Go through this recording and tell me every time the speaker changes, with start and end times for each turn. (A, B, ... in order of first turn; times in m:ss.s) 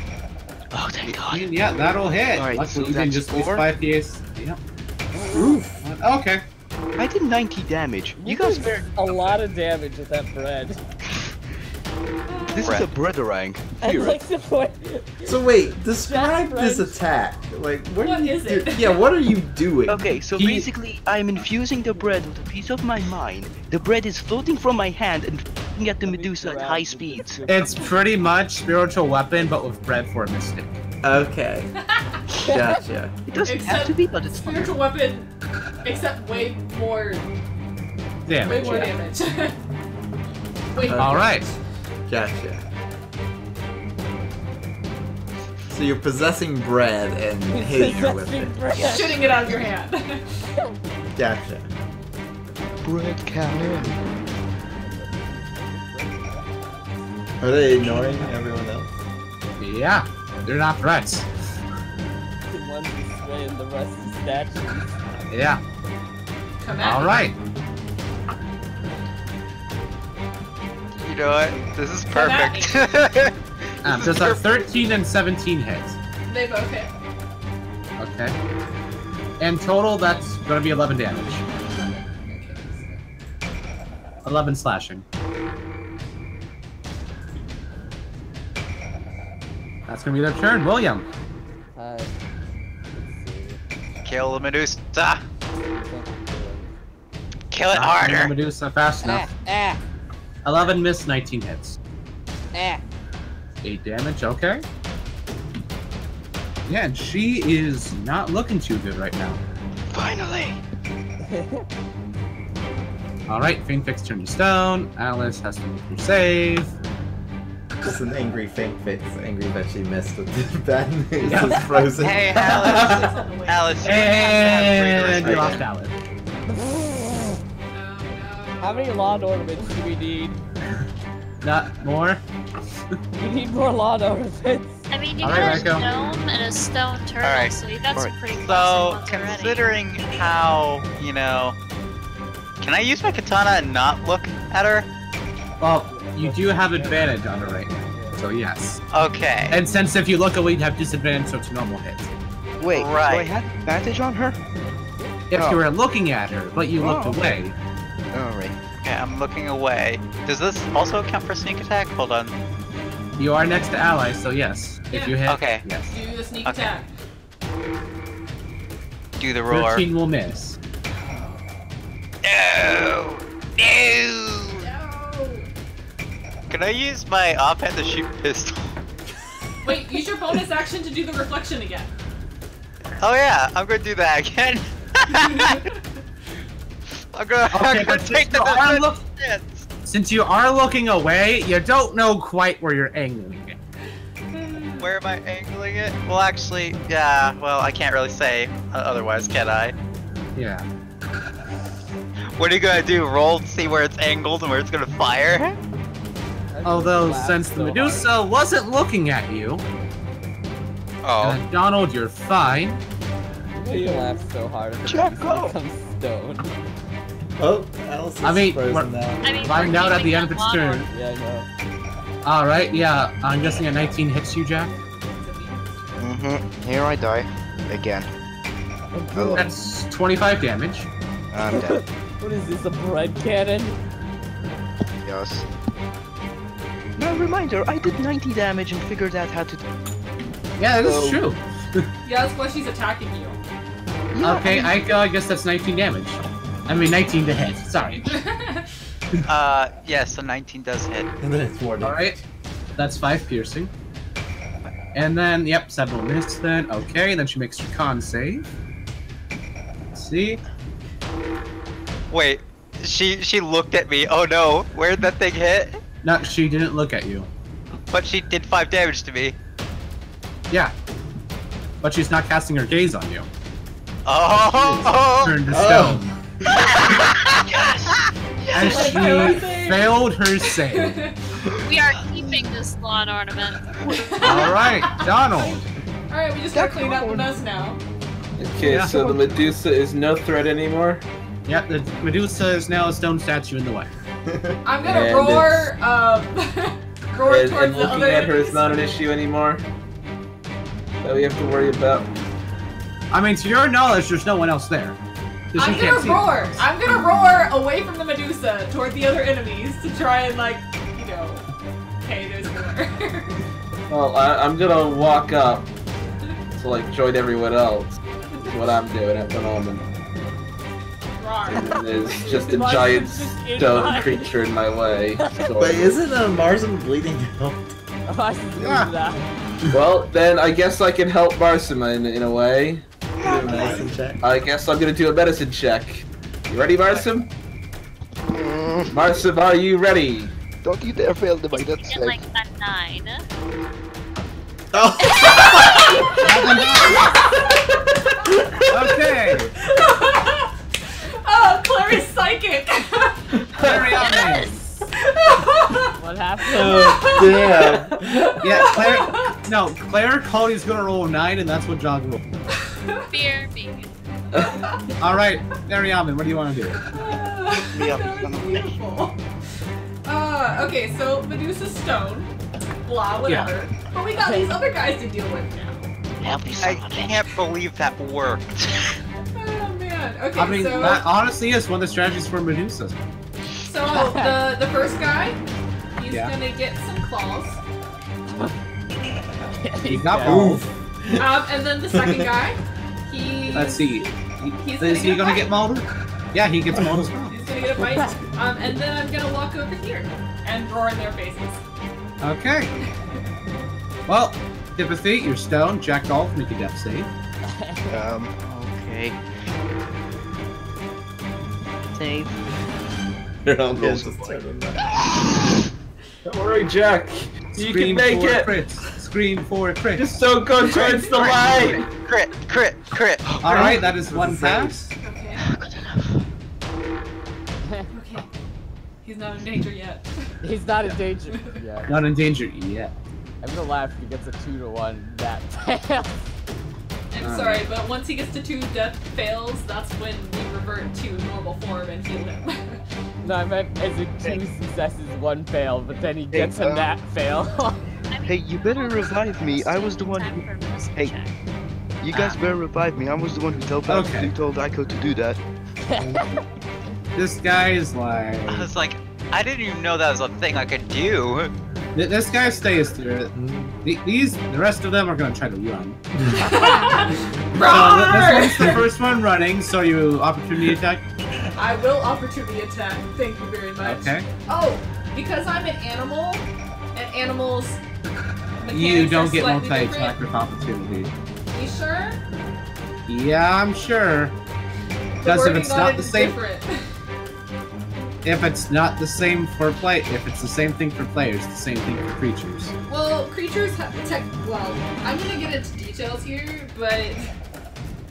0:00.7-0:01.5 A
0:01.1-0:04.6 B
0:02.3-0:03.7 A
0:05.2-0:05.5 C
0:05.3-0:06.4 B
0:07.0-0:09.4 A
0:08.2-0:10.8 C
0:11.0-0:11.4 A
0:12.3-0:12.8 D
0:12.5-0:14.2 A
0:13.8-0:15.4 C
0:15.2-0:20.1 E
0:16.0-0:17.0 C
0:18.0-0:19.0 D
0:19.9-0:27.4 A
0:20.4-0:20.7 B
0:26.0-0:27.9 C
0:27.5-0:30.8 B
0:31.0-0:31.7 E
0:31.9-0:32.2 D
0:32.4-0:33.2 E
0:32.4-0:32.8 C
0:33.3-0:34.7 A
0:33.4-0:35.3 D
0:35.8-0:37.3 D
0:38.3-0:39.0 B
0:38.4-0:39.6 D
0:38.5-0:38.9 C
0:40.7-0:41.5 D
0:40.9-0:41.3 E
0:41.0-0:41.5 B
0:42.1-0:42.7 E
0:45.7-0:48.6 E
0:47.5-0:49.2 C
0:48.8-0:50.4 D
0:51.1-0:51.7 E
0:52.8-0:54.2 A
0:54.8-0:56.8 C
0:57.4-0:58.9 E
0:59.6-1:01.5 B
1:02.5-1:05.0 C
1:05.3-1:05.6 B
1:06.6-1:07.3 D
1:06.8-1:07.4 B
1:11.0-1:13.3 F
1:12.1-1:13.2 D
1:13.8-1:16.0 B
1:13.8-1:14.6 F
1:16.3-1:16.9 D
1:18.0-1:18.4 B
1:19.4-1:21.4 B
1:21.5-1:23.0 D
1:24.2-1:25.0 B
1:29.9-1:31.0 B
1:31.8-1:32.1 C
1:33.0-1:33.6 C
1:34.0-1:35.2 F
1:35.7-1:36.7 C
1:37.5-1:38.4 F
1:37.7-1:39.3 B
1:39.0-1:39.8 C
1:40.4-1:41.8 B
1:42.5-1:42.8 C
1:43.6-1:44.6 B
1:46.7-1:49.4 B
1:49.9-1:50.6 A
1:51.2-1:51.7 C
1:53.3-1:56.7 B
1:57.8-2:02.7 E
2:01.2-2:03.0 B
2:02.0-2:05.6 F
2:02.5-2:05.2 D
2:03.8-2:06.0 B
2:05.2-2:05.6 E
2:06.5-2:07.4 C
2:07.7-2:09.3 D
2:08.6-2:10.4 C
2:11.4-2:12.2 B
2:13.2-2:14.8 C
2:14.9-2:19.8 G
2:15.2-2:15.9 B
2:17.2-2:17.6 F
2:18.4-2:21.6 F
2:22.6-2:24.9 F
2:25.6-2:28.8 B
2:25.9-2:28.2 C
2:28.9-2:29.6 F
2:29.5-2:32.1 B
2:32.6-2:34.4 A
2:32.7-2:33.3 F
2:35.3-2:37.5 B
2:35.3-2:35.6 A
2:36.7-2:37.3 A
2:38.1-2:38.6 A
2:38.8-2:42.3 F
2:43.2-2:45.9 B
2:44.9-2:45.2 D
2:45.3-2:45.7 F
2:45.8-2:46.9 D
2:46.4-2:46.7 F
2:49.2-2:49.9 F
2:49.5-2:50.6 B
2:52.2-2:54.6 F
2:54.6-2:55.5 D
2:56.5-2:58.8 F
2:59.6-3:01.9 D
3:03.0-3:05.7 F
3:05.1-3:05.7 D
3:07.1-3:09.7 F
3:07.5-3:09.1 B
3:09.9-3:13.6 B
3:14.3-3:14.9 D
3:14.8-3:19.8 F
3:20.4-3:20.7 B
3:22.4-3:25.6 F
3:26.5-3:28.1 C
3:26.6-3:29.6 B
3:31.0-3:31.4 F
3:31.2-3:32.8 B
3:33.6-3:36.5 C
3:33.7-3:34.1 A
3:34.8-3:35.5 A
3:37.4-3:39.4 E
3:38.2-3:40.9 B
3:39.2-3:40.9 G
3:40.9-3:41.5 C
3:42.2-3:44.7 B
3:43.7-3:46.1 D
3:46.0-3:48.1 A
3:48.9-3:49.5 C
3:49.1-3:49.5 A
3:49.3-3:50.9 B
3:51.3-3:51.8 A
3:51.5-3:53.8 C
3:55.0-3:55.5 A
3:57.0-3:59.6 A
4:00.6-4:01.9 B
4:00.8-4:01.2 A
4:02.0-4:03.4 D
4:04.1-4:04.8 A
4:04.2-4:08.1 B
4:08.1-4:08.7 D
4:09.3-4:11.1 F
4:11.2-4:12.2 E
4:11.8-4:12.2 B
4:12.8-4:13.7 B
4:14.9-4:18.5 B
4:19.9-4:20.4 B
4:22.1-4:25.8 F
4:26.0-4:27.3 B
4:27.9-4:29.4 F
4:31.8-4:33.3 B
4:34.1-4:35.4 F
4:34.6-4:36.1 B
4:35.5-4:36.9 E
4:36.5-4:38.0 F
4:37.5-4:38.7 A
4:38.5-4:41.2 D
4:38.5-4:41.0 B
4:41.6-4:43.8 G
4:43.8-4:47.8 D
4:44.2-4:45.7 B
4:46.5-4:47.3 A
4:48.4-4:51.0 H
4:48.6-4:49.2 B
4:51.5-4:53.9 B
4:54.3-4:55.2 E
4:54.6-4:59.1 D
4:54.8-4:55.7 H
4:57.2-4:59.6 H
5:01.0-5:02.1 H
5:03.1-5:05.0 B
5:05.5-5:06.6 B
5:05.6-5:11.4 D
5:12.0-5:13.4 D
5:13.9-5:15.7 H
5:16.6-5:19.8 H
5:21.2-5:23.0 D
5:21.5-5:26.0 H
5:22.2-5:24.3 C
5:23.6-5:24.2 D
5:25.2-5:25.5 C
5:25.6-5:27.8 E
5:28.1-5:29.3 C
5:28.6-5:28.9 B
5:29.7-5:37.3 H
5:33.2-5:33.7 A
5:33.2-5:34.3 E
5:33.5-5:33.8 B
5:38.3-5:39.0 A
5:38.9-5:40.3 H
5:40.6-5:42.2 A
5:41.5-5:43.2 G
5:44.7-5:46.2 E
5:45.0-5:45.8 G
5:45.3-5:47.7 D
5:46.2-5:47.3 B
5:48.7-5:49.5 B
5:49.6-5:50.5 D
5:51.2-5:54.2 D
5:53.6-5:54.8 B
5:54.0-5:54.5 G
5:54.9-5:55.9 D
5:56.0-5:57.2 C
5:56.5-5:59.4 D
5:56.5-5:58.2 E
5:58.4-6:02.4 B
6:02.5-6:03.1 D
6:03.1-6:03.9 G
6:04.4-6:04.8 D
6:05.0-6:06.8 B
6:06.9-6:09.2 D
6:07.7-6:08.8 A
6:10.0-6:12.3 D
6:12.8-6:15.9 D
6:13.2-6:13.5 B
6:16.2-6:17.4 A
6:16.6-6:19.0 F
6:19.3-6:21.1 D
6:20.4-6:23.0 B
6:23.6-6:25.4 D
6:23.9-6:24.4 C
6:26.0-6:27.6 D
6:26.1-6:26.3 B
6:28.2-6:28.5 C
6:29.6-6:30.5 C
6:29.8-6:30.6 B
6:30.2-6:31.2 E
6:31.2-6:35.6 D
6:32.0-6:32.2 E
6:33.5-6:37.4 B
6:37.3-6:41.6 D
6:42.2-6:42.7 B
6:44.1-6:47.1 B
6:47.5-6:47.8 C
6:47.9-6:49.5 A
6:51.9-6:52.4 A
6:53.5-6:54.9 E
6:53.7-6:54.4 A
6:56.2-6:58.5 H
6:57.5-7:00.2 B
7:00.0-7:01.9 H
7:00.8-7:01.1 D
7:01.2-7:01.8 B
7:01.2-7:03.4 F
7:03.2-7:03.8 A
7:03.4-7:04.9 B
7:03.5-7:04.8 E
7:05.0-7:05.4 D
7:05.4-7:06.2 A
7:07.9-7:08.3 D
7:09.0-7:10.2 D
7:10.4-7:11.9 C
7:11.3-7:11.6 D
7:11.9-7:12.9 B
7:13.4-7:16.3 C
7:17.1-7:22.8 D
7:17.2-7:17.7 B
7:23.2-7:27.8 C
7:26.3-7:26.9 A
7:28.1-7:31.3 G
7:28.2-7:31.2 A
7:32.0-7:35.4 A
7:32.1-7:32.4 B
7:33.9-7:34.3 B
7:35.9-7:36.2 C
7:37.2-7:38.7 B
7:38.5-7:41.5 F
7:42.0-7:46.0 B
7:42.3-7:43.0 D
7:43.3-7:43.7 E
7:46.3-7:48.9 D
7:47.6-7:51.0 B
7:51.6-7:57.8 D
7:53.8-7:54.3 B
7:58.6-8:00.2 D
7:58.7-8:01.1 B
8:01.5-8:02.2 D
8:03.1-8:04.3 B
8:05.2-8:06.8 D
8:05.2-8:06.4 B
8:08.2-8:12.7 B
8:12.9-8:17.3 D